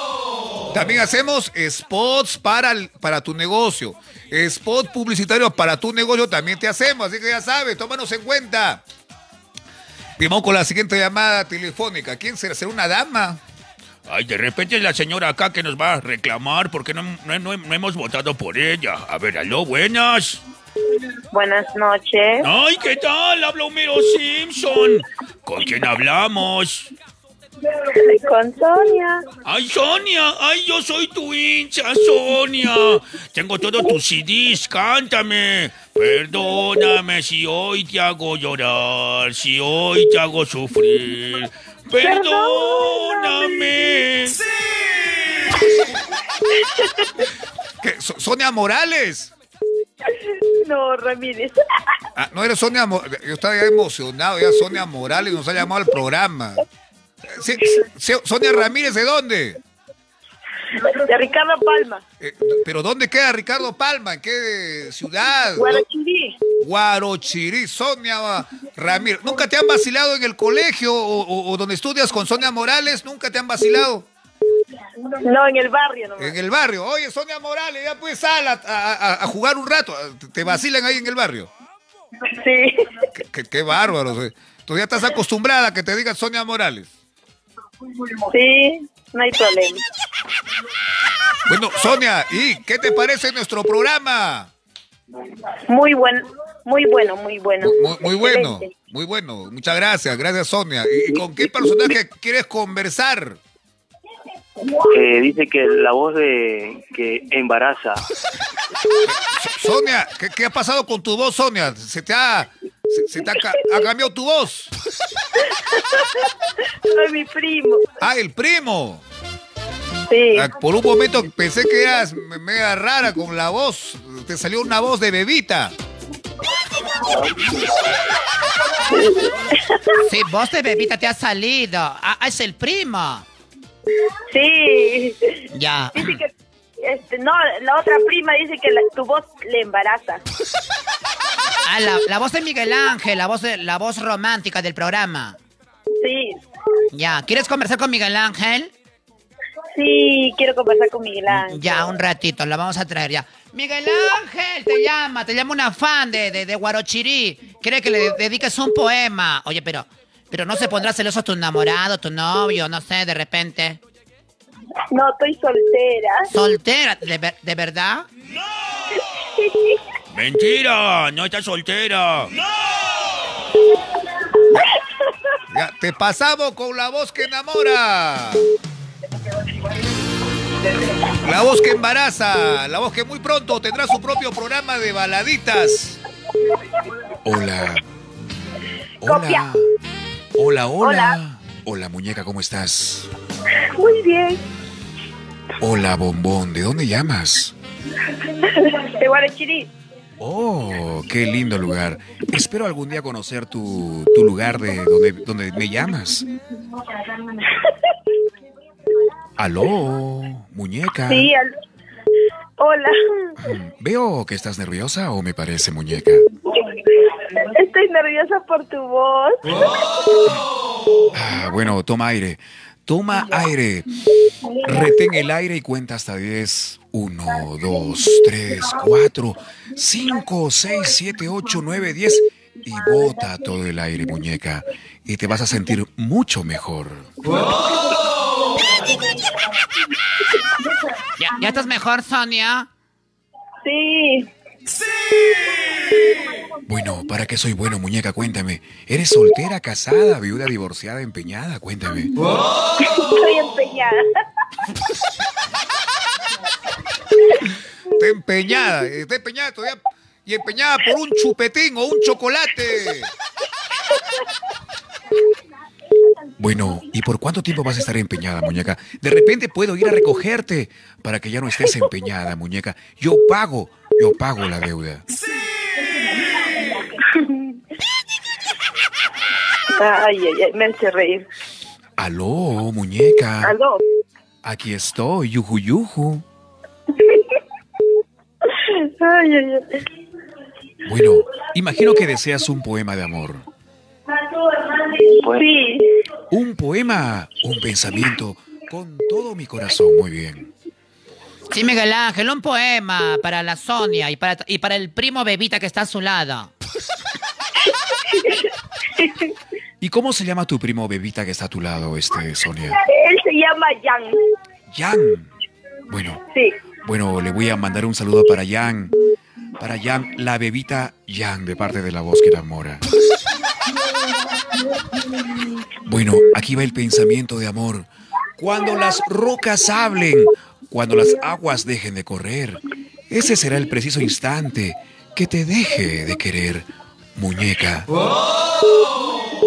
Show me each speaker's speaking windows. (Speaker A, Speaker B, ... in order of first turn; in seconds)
Speaker A: 0.7-8.8, 10.2-13.4, 47.8-49.3, 52.2-56.6, 57.3-59.6, 62.2-65.8, 66.6-74.1, 76.2-81.5, 83.2-86.9, 91.5-94.5, 97.6-103.4, 109.1-114.7, 118.0-119.0, 120.3-125.7, 175.5-178.4, 181.2-186.0, 258.0-263.1
Speaker B: 14.1-20.4, 22.4-26.9, 29.4-44.4, 170.1-172.3
Speaker C: 21.3-22.4, 28.1-29.2, 50.6-51.6, 60.9-62.0, 65.6-66.4, 75.1-76.3, 82.3-82.7, 88.3-89.8, 95.7-98.7, 116.9-117.8, 120.1-120.5, 134.3-135.3, 135.9-136.3, 136.8-140.2, 146.0-146.4, 149.7-151.9, 164.9-166.2, 189.0-189.5, 190.8-191.2, 193.8-194.4, 198.5-199.7, 211.1-211.5, 212.6-212.9, 217.4-219.7, 243.6-244.3, 252.8-254.0, 279.8-281.3, 283.4-283.8, 289.0-289.7, 294.9-295.9, 312.7-314.2, 316.3-316.6
Speaker D: 104.9-108.0
Speaker E: 130.0-133.3, 135.5-136.2, 141.7-145.4, 146.9-148.7, 151.3-163.8, 166.3-168.1, 241.2-242.7, 301.5-306.5
Speaker F: 187.2-187.8, 189.0-189.6, 190.3-193.1, 195.6-197.6, 200.2-206.3, 209.4-211.3, 213.4-216.2, 221.1-223.9, 224.6-237.1, 246.7-252.1, 266.4-275.0, 282.0-283.6, 284.4-286.2, 290.9-293.5, 296.3-300.5, 309.8-312.8, 314.7-315.3, 315.9-316.2, 316.8-318.9, 319.6-322.8, 325.9-337.9